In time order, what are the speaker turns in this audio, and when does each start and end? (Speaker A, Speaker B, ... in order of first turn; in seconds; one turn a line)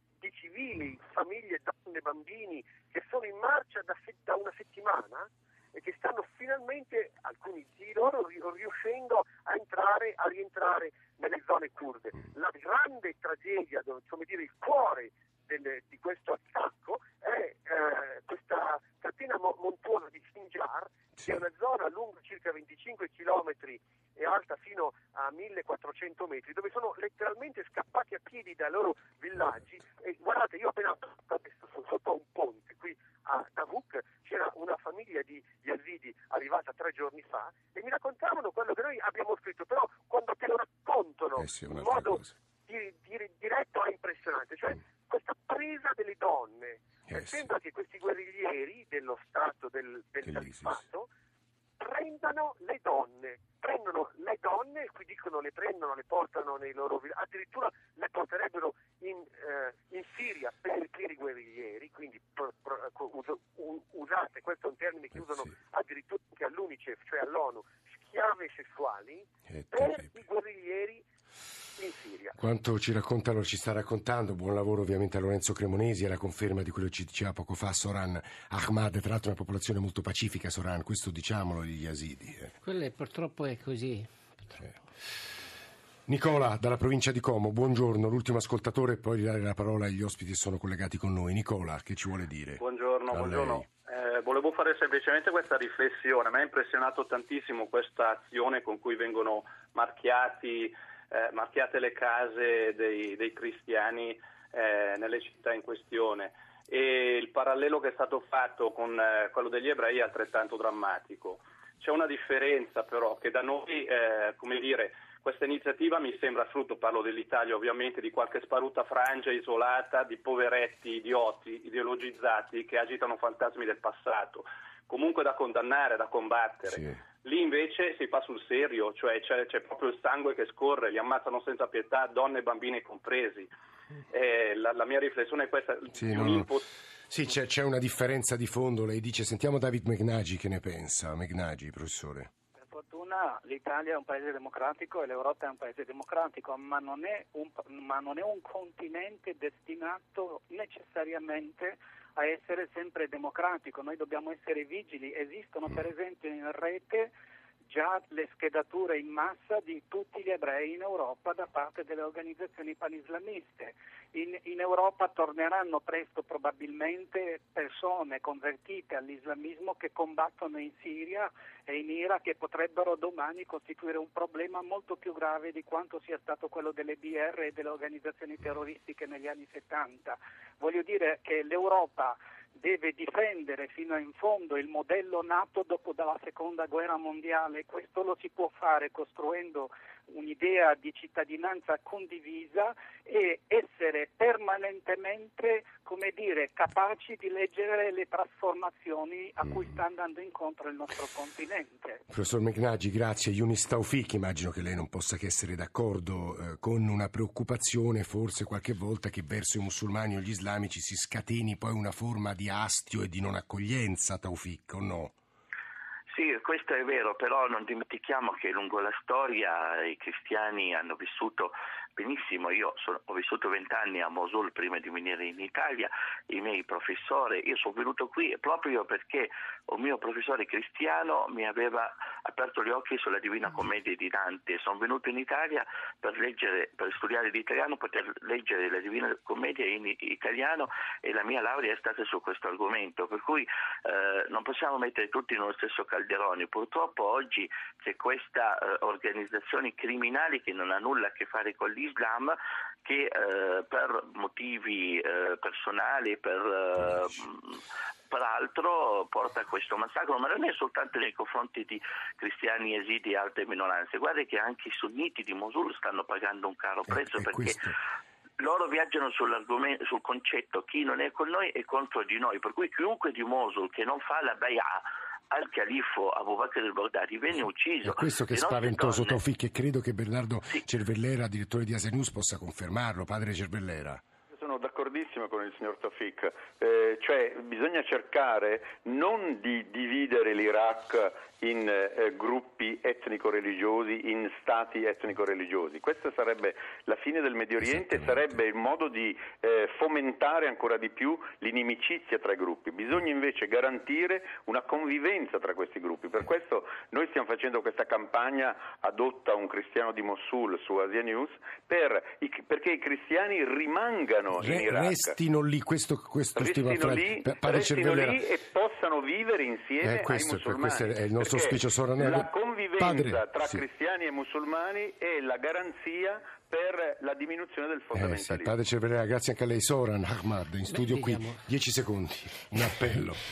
Speaker A: 0.2-51.1
Speaker B: 41.4-42.3
Speaker B: 47.1-47.5
Speaker B: 50.3-50.7
Speaker A: 51.8-71.0
Speaker B: 69.6-70.0
Speaker A: 71.8-72.4
Speaker B: 72.4-82.5
Speaker C: 82.6-84.7
Speaker B: 86.1-93.7
Speaker D: 92.6-133.5
Speaker B: 126.7-127.0
Speaker D: 134.1-136.7
Speaker B: 135.9-136.5
Speaker B: 137.1-142.3
Speaker E: 142.6-157.1
Speaker E: 157.7-202.0
Speaker B: 202.1-215.1
Speaker F: 216.1-267.6
Speaker B: 266.9-267.8
Speaker F: 268.4-279.2
Speaker B: 277.8-284.0
Speaker G: 284.3-315.1
Speaker B: 297.6-298.4
Speaker B: 314.3-318.2
Speaker G: 316.4-328.5
Speaker B: 319.8-323.6
Speaker B: 327.9-333.2
Speaker C: 330.7-331.4